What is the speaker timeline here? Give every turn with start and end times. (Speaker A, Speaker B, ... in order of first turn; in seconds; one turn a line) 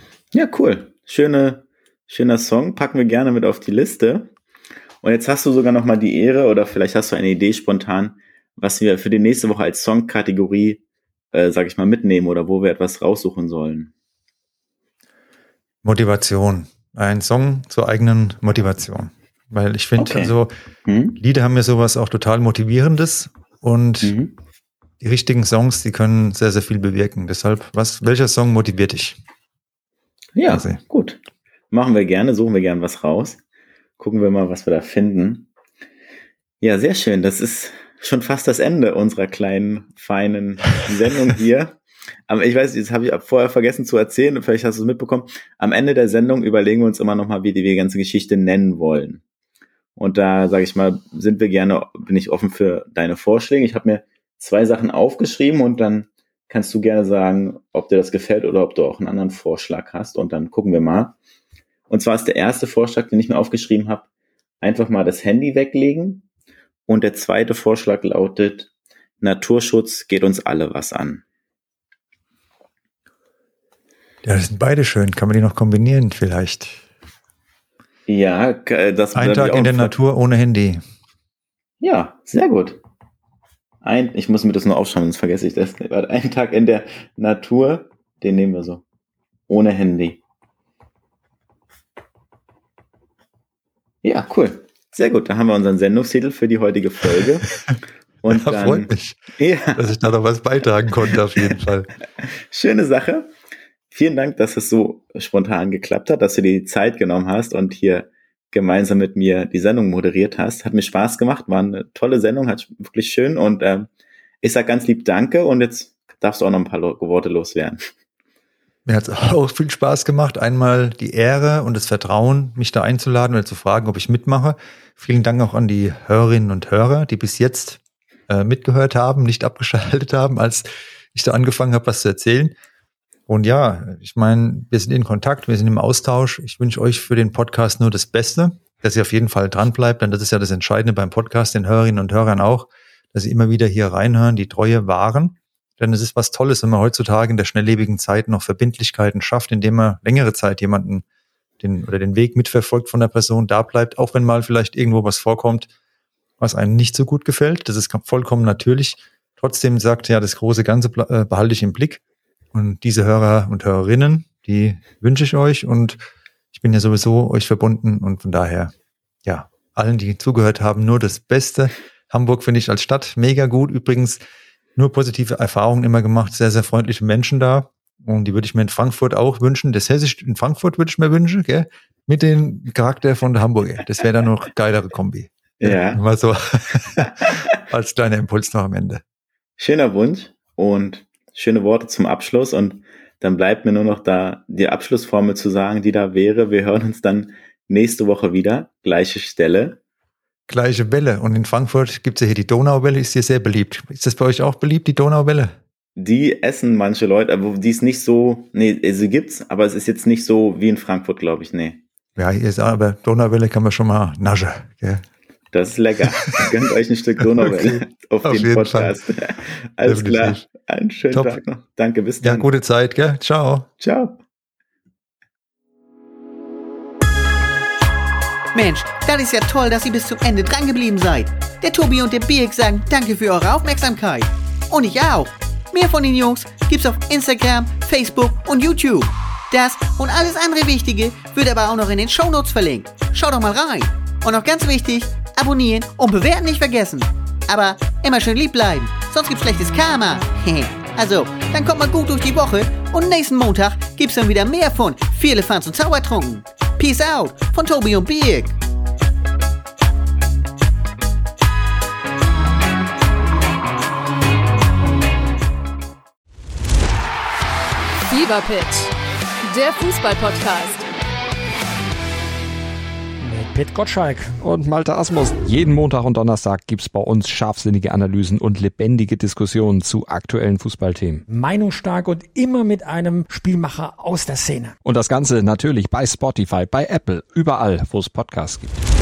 Speaker A: 0.3-4.3
Speaker A: 5.0-10.8
Speaker A: 11.3-13.9
Speaker B: 15.8-20.5
Speaker A: 20.0-20.3
Speaker A: 20.8-21.2
Speaker B: 21.1-24.1
Speaker A: 24.0-24.3
Speaker B: 25.0-29.2
Speaker A: 30.4-31.2
Speaker B: 30.5-30.8
Speaker A: 31.7-33.4
Speaker A: 34.0-35.5
Speaker A: 36.6-49.2
Speaker A: 50.0-61.1
Speaker A: 61.9-64.0
Speaker A: 64.6-66.2
Speaker A: 66.9-68.7
Speaker A: 69.2-71.2
Speaker B: 74.2-76.8
Speaker A: 78.1-80.0
Speaker B: 79.1-80.8
Speaker A: 81.8-82.8
Speaker A: 83.8-88.8
Speaker A: 89.5-90.2
Speaker A: 94.0-97.6
Speaker A: 98.2-99.9
Speaker B: 98.2-99.2
Speaker B: 99.7-101.9
Speaker A: 102.2-103.3
Speaker A: 103.9-113.9
Speaker A: 114.4-117.8
Speaker B: 118.8-132.5
Speaker B: 133.3-151.0
Speaker B: 151.6-155.7
Speaker B: 156.4-162.0
Speaker B: 162.5-166.0
Speaker B: 166.5-168.7
Speaker B: 169.2-174.2
Speaker B: 174.8-189.0
Speaker A: 185.6-186.0
Speaker A: 189.6-199.8
Speaker B: 200.5-205.5
Speaker A: 206.0-211.8
Speaker B: 212.2-215.0
Speaker A: 215.5-222.5
Speaker B: 216.2-216.5
Speaker B: 217.2-219.0
Speaker B: 219.8-220.4
Speaker B: 221.1-221.4
Speaker B: 222.2-223.7
Speaker A: 223.8-224.2
Speaker C: 228.5-258.5
Speaker D: 268.1-270.9
Speaker E: 273.2-274.4
Speaker F: 274.4-281.2
Speaker E: 281.3-284.8
Speaker F: 284.8-288.8